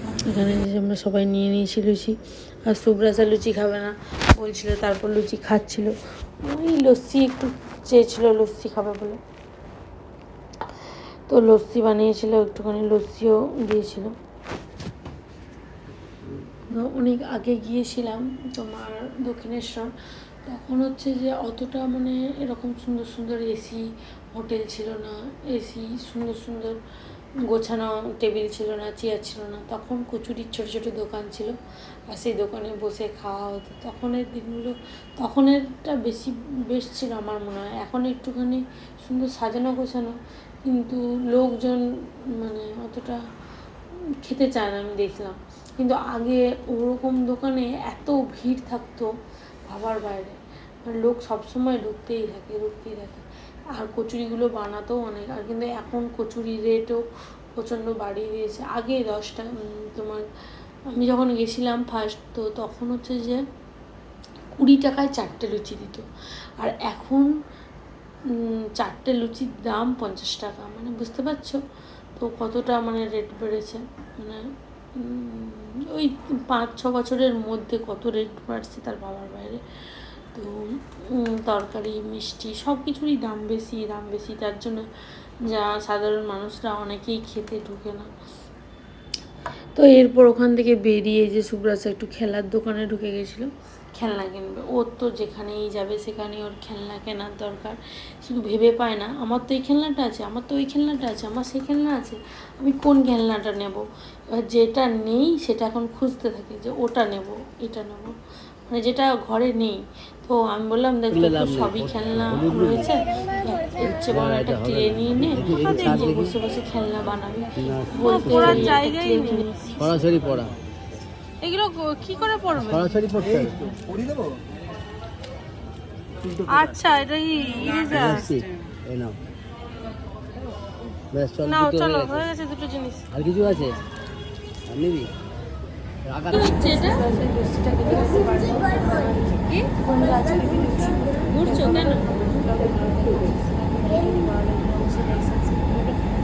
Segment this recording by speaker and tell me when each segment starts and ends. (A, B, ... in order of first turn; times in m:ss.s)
0:00.3-0:02.2 A
0:02.7-0:09.2 A
0:11.3-0:14.1 A
0:16.7-0:19.9 A
0:20.4-0:26.8 A
0:27.5-0:31.5 A
0:32.1-0:41.8 A
0:42.4-0:43.2 A
0:44.2-0:49.1 A
0:49.7-0:57.0 A
0:57.6-1:00.2 A
1:00.9-1:03.4 A
1:04.6-1:06.0 A
1:06.6-1:07.3 A
1:08.4-1:11.6 A
1:12.2-1:14.4 A
1:15.0-1:19.6 A
1:21.2-1:24.8 A
1:25.5-1:28.1 A
1:29.8-1:48.2 A
1:48.7-1:59.9 A
1:51.1-1:52.9 B
1:54.1-1:56.4 B
1:55.4-1:56.2 C
1:57.6-1:58.8 B
1:58.0-1:59.5 C
1:59.8-2:00.6 B
2:01.4-2:03.0 C
2:02.5-2:03.6 B
2:06.5-2:08.3 C
2:07.9-2:09.2 B
2:11.1-2:12.3 B
2:11.4-2:13.1 C
2:13.1-2:13.8 B
2:14.7-2:15.1 B
2:16.0-2:16.6 B
2:16.3-2:17.0 C
2:16.3-2:25.9 A
2:21.3-2:22.0 C